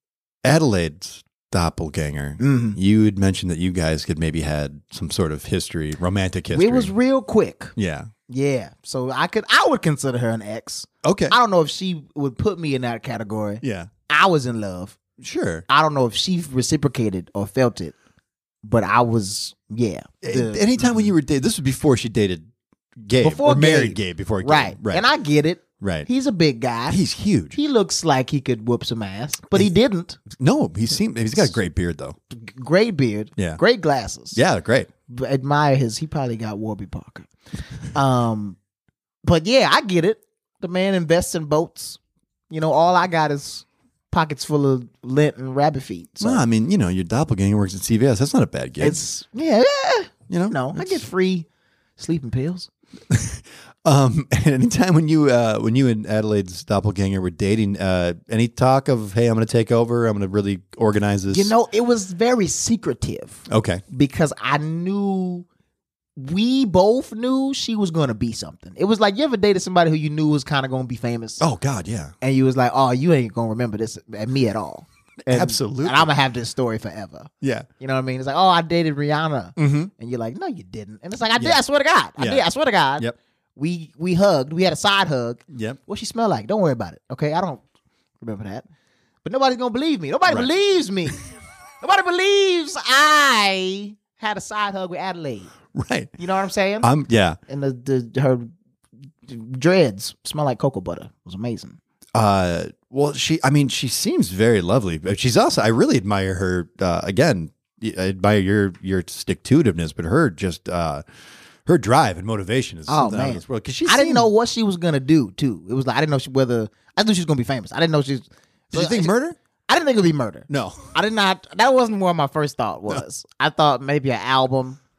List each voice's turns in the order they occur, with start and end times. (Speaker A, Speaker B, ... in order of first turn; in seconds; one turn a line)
Speaker A: 0.4-6.9
Speaker B: 2.4-2.8
Speaker B: 6.5-7.7
Speaker A: 7.8-8.1
Speaker B: 8.3-15.0
Speaker A: 11.0-11.4
Speaker A: 13.6-13.9
Speaker A: 15.2-15.6
Speaker B: 15.7-17.9
Speaker B: 18.6-21.1
Speaker A: 20.2-22.5
Speaker A: 23.0-25.0
Speaker B: 23.2-30.2
Speaker A: 25.8-26.1
Speaker A: 26.9-27.6
Speaker A: 30.3-32.1
Speaker B: 32.3-34.4
Speaker A: 34.3-34.9
Speaker B: 35.1-37.3
Speaker B: 37.9-38.6
Speaker B: 39.2-42.0
Speaker B: 42.5-46.4
Speaker A: 46.2-49.0
Speaker B: 48.8-52.7
Speaker A: 50.3-51.0
Speaker A: 53.1-61.5
Speaker B: 61.3-65.5
Speaker A: 63.5-63.8
Speaker B: 66.2-71.4
Speaker A: 71.4-72.1
Speaker B: 72.2-87.6
Speaker A: 75.2-76.1
Speaker A: 77.4-77.7
Speaker A: 79.6-79.9
Speaker A: 82.2-82.5
Speaker A: 85.5-85.8
Speaker B: 88.2-88.7
Speaker B: 89.2-91.2
Speaker B: 91.8-95.5
Speaker A: 95.7-96.1
Speaker B: 96.2-96.9
Speaker A: 96.8-97.4
Speaker B: 97.5-98.5
Speaker B: 99.2-101.8
Speaker A: 102.1-111.0
Speaker A: 111.7-114.3
Speaker B: 112.9-119.1
Speaker A: 118.7-119.4
Speaker B: 119.7-124.8
Speaker A: 120.5-120.9